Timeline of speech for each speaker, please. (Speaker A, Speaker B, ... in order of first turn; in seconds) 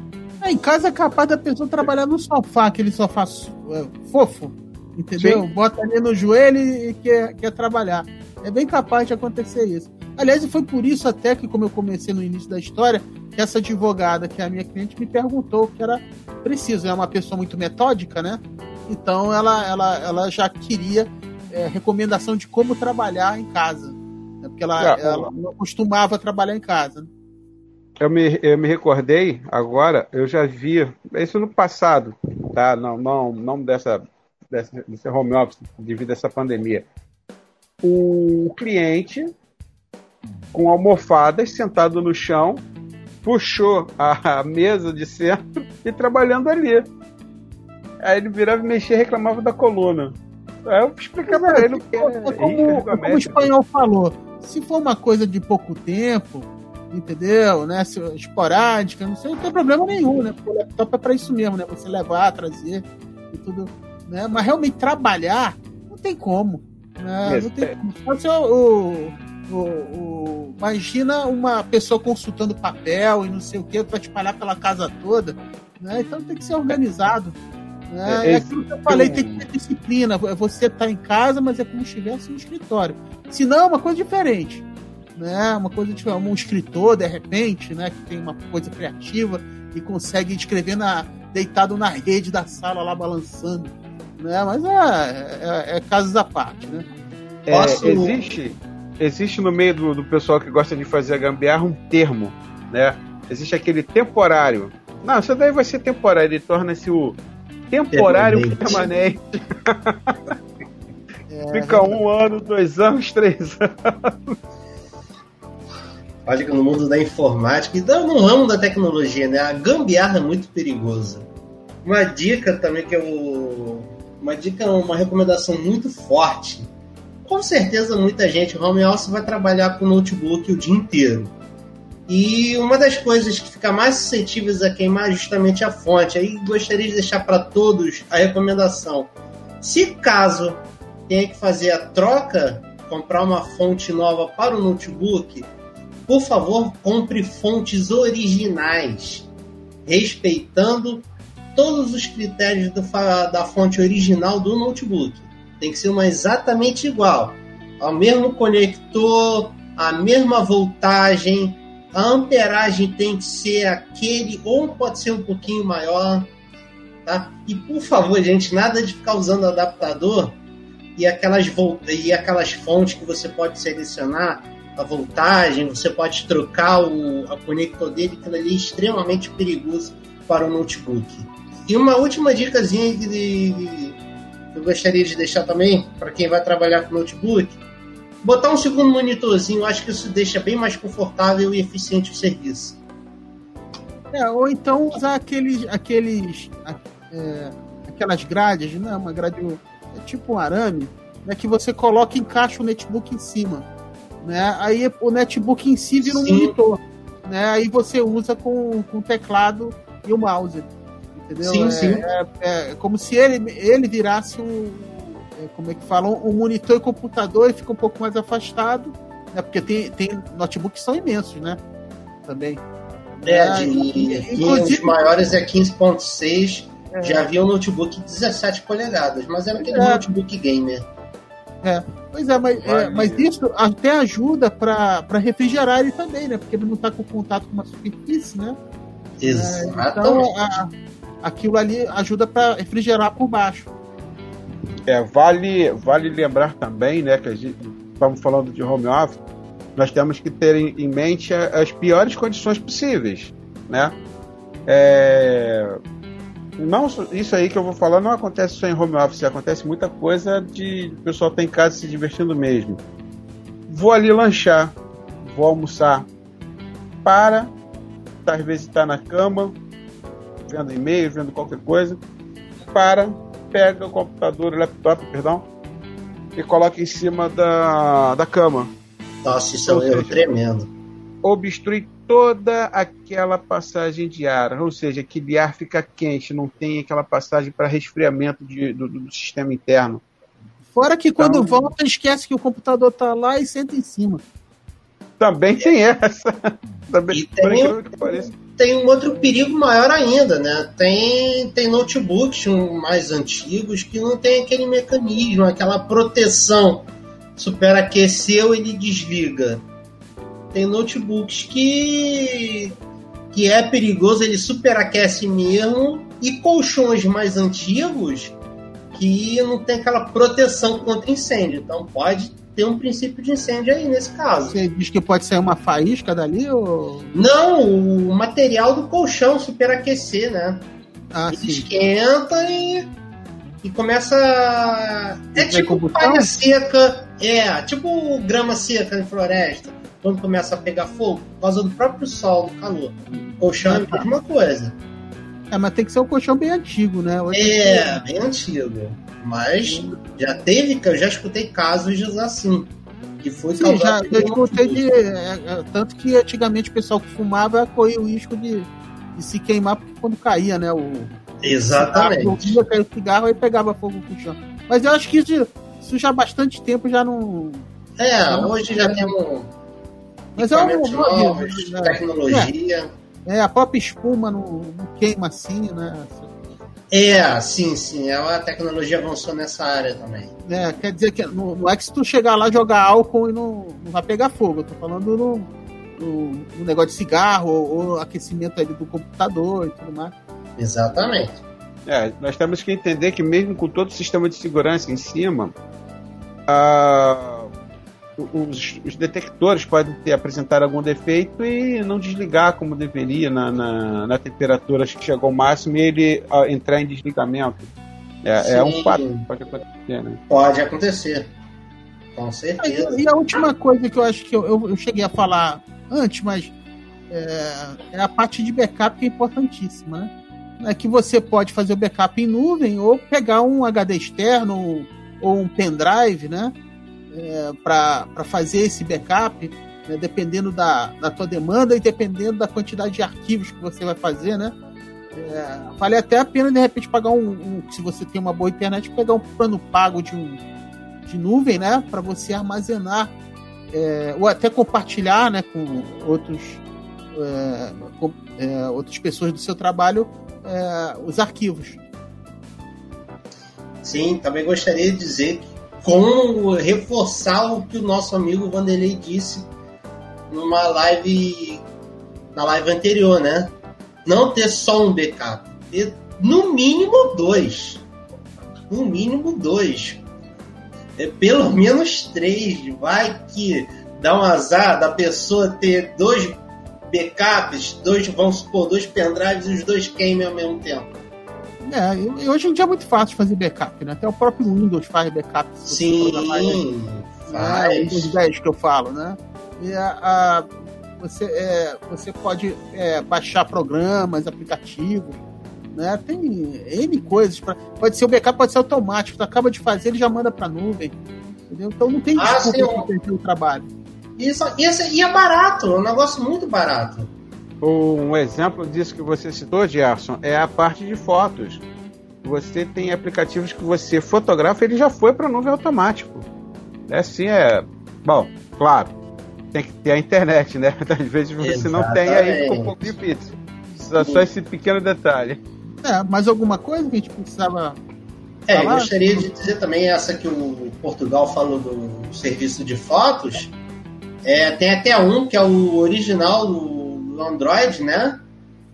Speaker A: 0.4-27.1, 51.2-77.4, 77.9-96.9, 111.3-112.0, 194.1-203.7, 204.2-221.6, 222.2-222.6, 223.2-225.1, 226.9-227.3, 229.6-230.0, 231.6-238.6, 239.3-240.7, 241.2-243.7, 290.7-294.2, 324.5-327.1, 331.1-331.6, 335.3-336.3, 343.6-344.1, 345.5-348.0, 349.6-350.0, 353.5-361.1, 361.7-367.7, 368.3-369.1, 370.4-372.5, 373.2-376.3, 380.5-390.1, 412.6-416.5, 417.1-426.5, 427.1-434.6, 435.1-440.4, 441.1-443.1, 443.7-446.6, 447.1-451.8, 481.6-486.6, 487.3-495.2, 495.7-503.7, 525.8-527.8, 528.5-528.9
Speaker B: 5.2-5.4, 24.8-25.3, 28.0-36.9, 37.8-39.3, 40.5-42.6, 43.2-46.9, 48.0-53.5, 67.2-67.7, 78.0-79.5, 97.5-107.2, 107.7-110.3, 111.5-114.4, 232.6-233.1, 244.9-249.2, 249.8-253.9, 254.7-255.8, 256.6-262.8, 263.7-266.1, 267.0-267.5, 268.2-269.6, 270.5-272.0, 272.7-275.5, 276.4-278.7, 279.7-280.2, 281.2-290.0, 291.2-291.6, 295.2-296.3, 296.9-298.3, 391.9-395.6, 396.5-397.5, 398.2-407.7, 408.2-410.2, 507.6-511.6, 512.2-516.3, 516.9-518.9, 519.5-525.4
Speaker C: 97.5-98.2, 107.9-108.8, 116.2-121.3, 121.8-126.7, 127.3-131.3, 132.1-139.1, 139.6-145.5, 146.1-149.3, 149.8-166.3, 167.0-170.4, 170.9-184.0, 184.5-187.6, 188.2-192.8, 206.0-206.5, 211.4-212.0, 223.2-230.8, 232.9-233.1, 239.2-240.3, 279.2-280.7, 297.1-306.9, 307.4-309.6, 310.5-312.7, 313.3-318.4, 318.9-324.6, 327.1-330.6, 331.3-332.9, 333.6-344.8, 347.3-354.9, 361.4-362.6, 368.0-369.5, 370.3-372.9, 376.9-380.3, 390.6-391.4, 408.4-409.3, 410.3-411.3, 412.1-413.0, 453.8-459.5, 460.3-461.6, 462.3-463.5, 464.0-467.8, 468.7-470.0, 471.0-480.9, 485.7-488.1, 502.1-502.9, 504.2-507.1, 521.4-522.9, 524.0-524.2, 528.5-533.5, 534.2-538.2